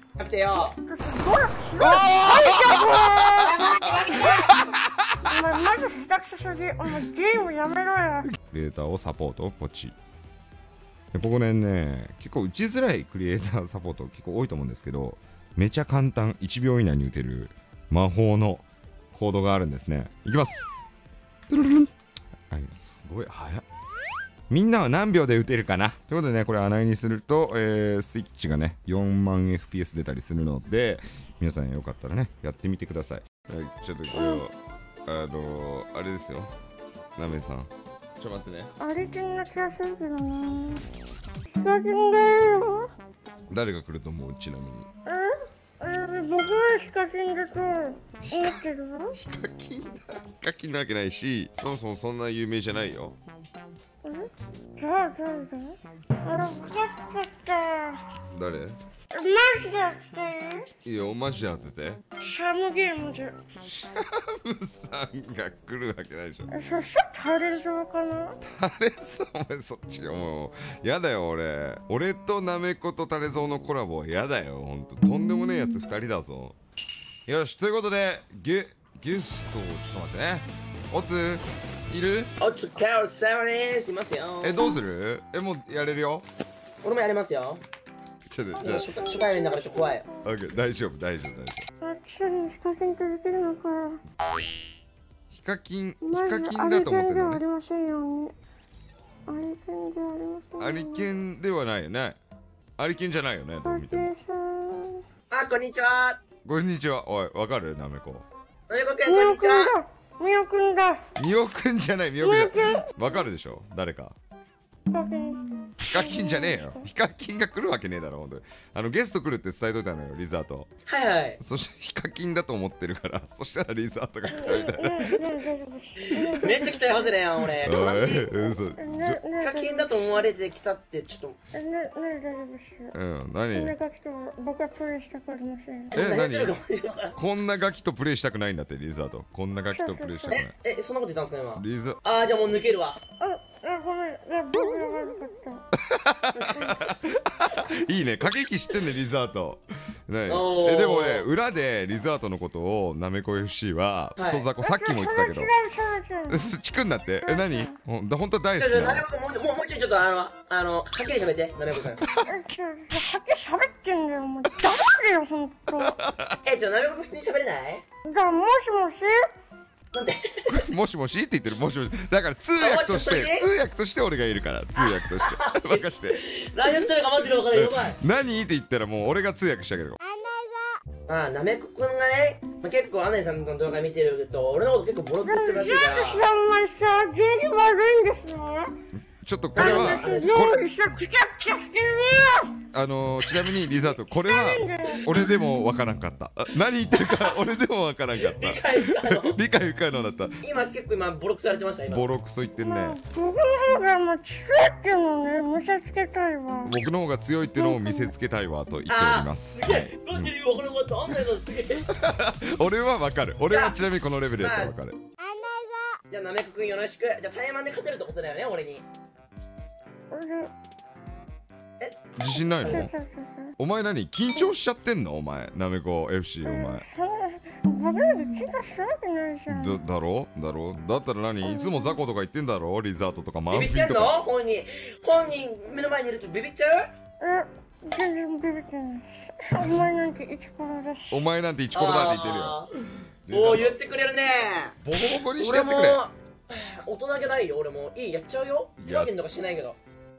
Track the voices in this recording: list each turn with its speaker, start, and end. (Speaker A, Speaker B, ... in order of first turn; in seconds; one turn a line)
Speaker A: 0.2-0.7
Speaker B: 0.6-3.5
Speaker C: 1.8-4.8
Speaker A: 3.4-4.5
Speaker B: 4.1-4.3
Speaker B: 5.2-8.3
Speaker C: 8.3-9.9
Speaker C: 11.1-20.7
Speaker C: 21.5-21.9
Speaker C: 22.5-23.6
Speaker C: 24.5-34.5
Speaker B: 34.1-34.4
Speaker C: 35.0-36.5
Speaker C: 37.1-38.7
Speaker B: 38.8-40.8
Speaker B: 41.5-42.9
Speaker C: 43.5-44.9
Speaker B: 45.0-49.2
Speaker C: 48.2-48.6
Speaker C: 49.1-53.1
Speaker B: 54.0-58.0
Speaker C: 58.3-58.8
Speaker B: 59.1-60.7
Speaker C: 60.8-62.0
Speaker B: 62.2-63.4
Speaker C: 63.6-66.5
Speaker B: 66.5-68.4
Speaker C: 68.4-76.5
Speaker C: 77.3-82.3
Speaker A: 82.4-84.6
Speaker C: 84.4-86.2
Speaker A: 86.8-87.6
Speaker C: 88.3-88.9
Speaker B: 88.6-90.3
Speaker A: 88.6-90.0
Speaker C: 90.2-91.7
Speaker B: 91.8-94.0
Speaker C: 95.3-97.4
Speaker B: 96.0-98.3
Speaker B: 99.3-101.1
Speaker C: 100.6-102.2
Speaker C: 102.8-104.1
Speaker B: 103.6-105.0
Speaker A: 105.3-106.2
Speaker C: 106.4-108.2
Speaker A: 108.7-109.7
Speaker B: 109.0-111.0
Speaker C: 111.2-114.1
Speaker B: 112.2-113.1
Speaker B: 114.9-116.9
Speaker C: 115.8-120.7
Speaker A: 120.8-121.4
Speaker C: 121.4-125.1
Speaker B: 124.3-127.1
Speaker A: 126.0-128.3
Speaker C: 127.6-129.2
Speaker B: 128.3-130.1
Speaker A: 129.4-131.4
Speaker B: 131.5-132.9
Speaker C: 132.9-133.7
Speaker B: 133.5-136.0
Speaker A: 135.9-137.2
Speaker C: 135.9-136.6
Speaker C: 137.1-140.5
Speaker B: 139.7-140.4
Speaker A: 140.3-143.0
Speaker C: 141.6-142.0
Speaker B: 143.2-145.6
Speaker C: 145.7-155.5
Speaker A: 146.3-146.9
Speaker A: 150.3-151.2
Speaker A: 154.2-154.5
Speaker B: 154.6-156.5
Speaker C: 156.3-159.0
Speaker B: 157.2-157.8
Speaker A: 158.6-162.1
Speaker C: 162.0-162.3
Speaker B: 162.2-165.9
Speaker C: 165.8-166.4
Speaker A: 166.4-167.8
Speaker B: 168.1-169.3
Speaker A: 169.9-170.7
Speaker C: 170.5-176.2
Speaker A: 172.6-173.5
Speaker A: 174.8-178.0
Speaker C: 177.5-180.0
Speaker A: 181.1-186.2
Speaker B: 185.2-188.7
Speaker C: 189.2-190.6
Speaker B: 189.5-192.5
Speaker A: 189.6-190.4
Speaker C: 192.7-200.4
Speaker B: 194.1-195.1
Speaker A: 197.0-197.4
Speaker A: 198.2-199.4
Speaker A: 200.4-202.1
Speaker C: 201.9-203.0
Speaker B: 202.6-206.7
Speaker C: 206.6-210.3
Speaker B: 207.6-208.1
Speaker A: 208.9-211.9
Speaker C: 211.9-215.0
Speaker A: 213.5-213.8
Speaker A: 214.4-214.8
Speaker A: 216.1-218.8
Speaker B: 220.1-220.5
Speaker C: 222.2-222.9
Speaker B: 222.6-223.6
Speaker A: 222.6-222.9
Speaker C: 223.6-226.8
Speaker B: 226.4-229.8
Speaker C: 229.5-234.2
Speaker B: 231.4-232.0
Speaker A: 233.5-236.9
Speaker B: 237.2-241.2
Speaker C: 241.1-242.6
Speaker A: 241.7-242.7
Speaker C: 243.2-243.8
Speaker A: 243.3-244.8
Speaker C: 244.8-246.0
Speaker A: 245.3-249.8
Speaker C: 248.8-249.1